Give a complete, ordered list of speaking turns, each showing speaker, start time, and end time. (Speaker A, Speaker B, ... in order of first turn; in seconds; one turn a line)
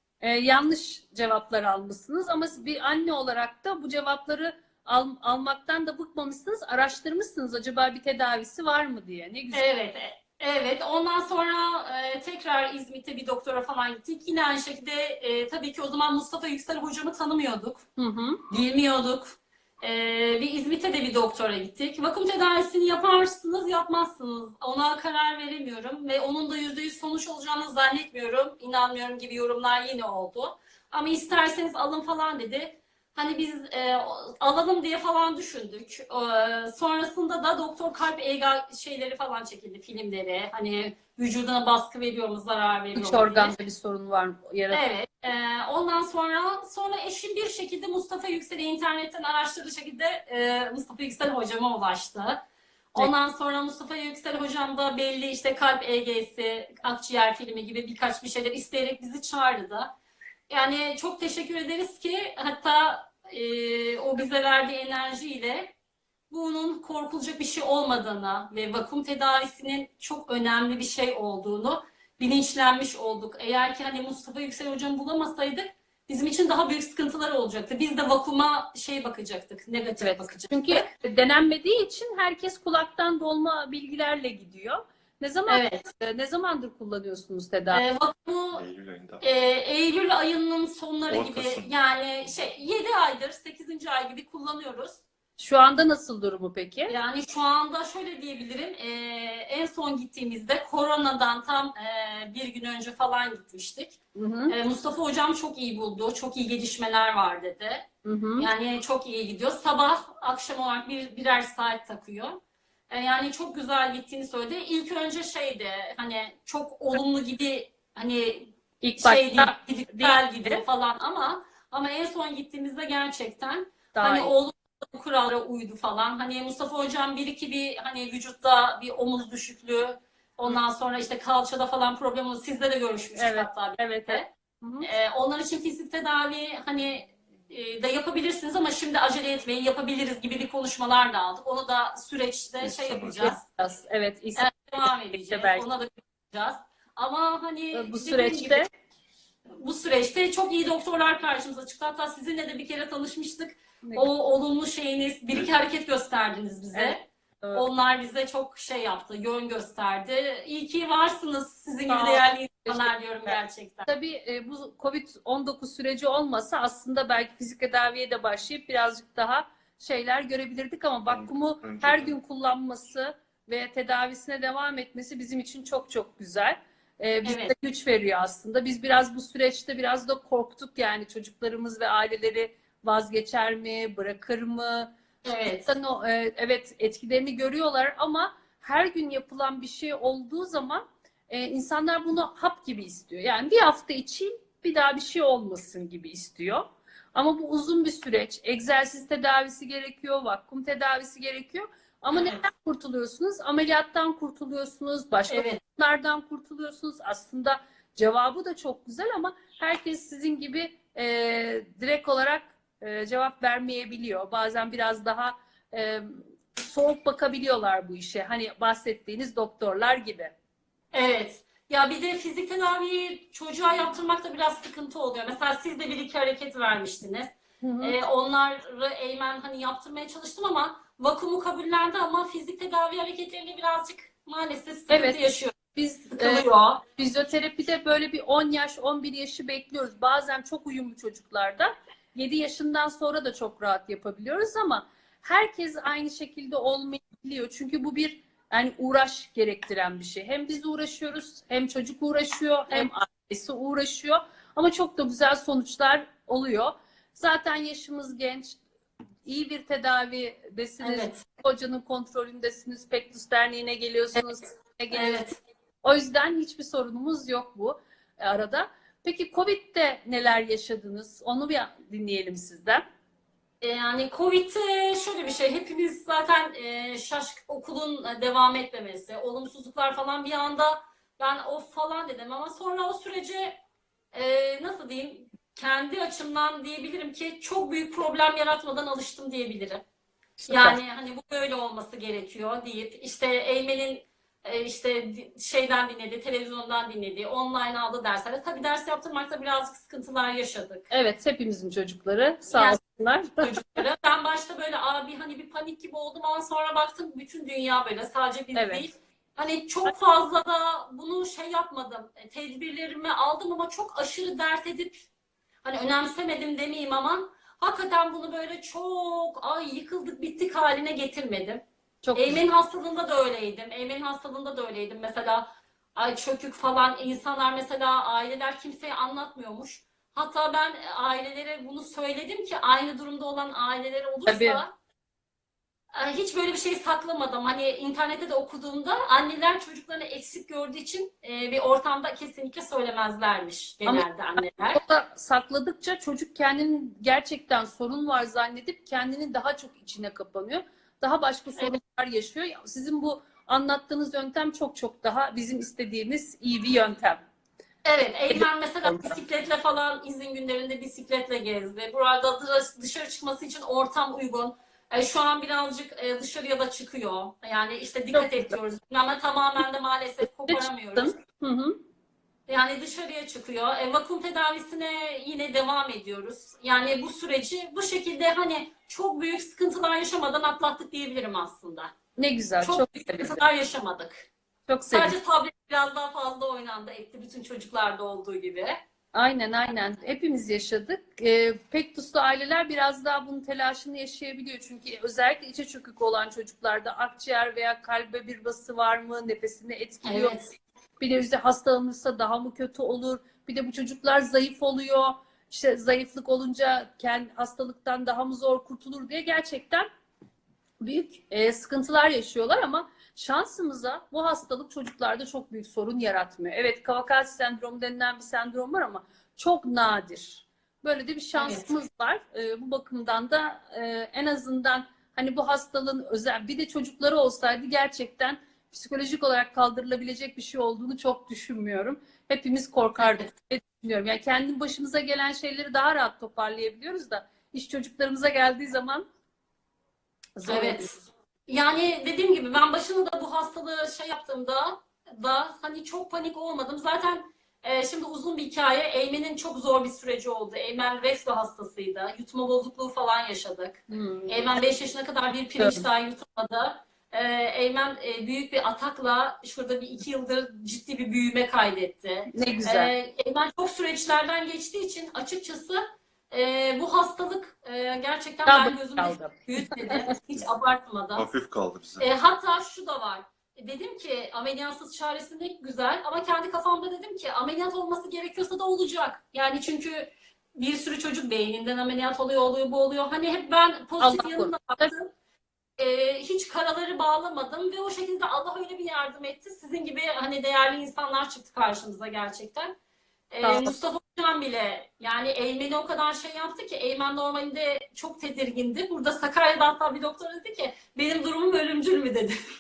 Speaker A: 0.2-9.6
Speaker B: 9.5-17.9
Speaker A: 18.0-18.4
Speaker B: 18.5-43.6
Speaker A: 43.0-44.8
Speaker B: 44.7-59.9
Speaker B: 60.5-65.7
Speaker B: 66.3-80.9
Speaker A: 80.0-87.8
Speaker B: 85.5-85.8
Speaker B: 87.7-88.6
Speaker C: 88.5-89.2
Speaker B: 89.2-95.0
Speaker C: 91.1-91.7
Speaker A: 95.4-96.9
Speaker B: 96.9-107.9
Speaker A: 104.2-104.6
Speaker A: 108.0-108.5
Speaker B: 108.4-134.3
Speaker A: 118.8-120.6
Speaker A: 124.0-124.3
Speaker A: 133.2-134.9
Speaker B: 134.8-143.4
Speaker C: 142.6-143.3
Speaker A: 143.5-144.5
Speaker B: 144.4-148.7
Speaker A: 145.1-145.7
Speaker A: 147.7-148.7
Speaker B: 149.6-163.9
Speaker A: 156.7-157.6
Speaker A: 161.9-163.3
Speaker A: 163.9-184.9
Speaker C: 171.1-172.1
Speaker B: 177.2-177.5
Speaker B: 185.2-185.8
Speaker A: 185.5-220.3
Speaker B: 202.1-202.4
Speaker B: 205.3-205.6
Speaker B: 220.9-235.6
Speaker A: 227.6-228.0
Speaker A: 234.9-235.2
Speaker A: 235.7-258.6
Speaker B: 236.1-236.8
Speaker A: 259.2-265.2
Speaker B: 260.8-261.2
Speaker B: 264.9-265.4
Speaker A: 265.8-272.9
Speaker B: 273.6-283.6
Speaker B: 284.1-289.8
Speaker A: 290.4-290.8
Speaker B: 290.5-300.9
Speaker A: 300.9-303.8
Speaker B: 302.5-302.8
Speaker B: 303.4-315.1
Speaker A: 308.6-308.9
Speaker B: 315.6-321.6
Speaker A: 322.0-322.4
Speaker B: 322.1-334.7
Speaker A: 334.3-334.6
Speaker B: 335.9-344.8
Speaker A: 344.7-357.2
Speaker B: 357.8-371.1
Speaker A: 358.3-359.1
Speaker A: 368.1-368.5
Speaker A: 370.5-371.8
Speaker B: 372.5-381.9
Speaker A: 382.2-383.4
Speaker B: 382.6-384.3
Speaker A: 384.7-385.2
Speaker B: 384.9-388.8
Speaker A: 389.1-400.4
Speaker B: 400.1-400.5
Speaker A: 401.0-409.9
Speaker A: 410.8-439.1
Speaker B: 421.4-421.7
Speaker B: 433.0-433.3
Speaker A: 440.4-440.9
Speaker B: 440.5-441.0
Speaker B: 441.5-471.3
Speaker A: 453.9-454.6
Speaker A: 455.6-455.9
Speaker A: 462.3-462.9
Speaker A: 468.5-470.0
Speaker C: 471.1-472.1
Speaker B: 472.0-485.1
Speaker A: 484.0-484.9
Speaker B: 485.8-492.8
Speaker B: 493.3-502.4
Speaker A: 493.4-493.8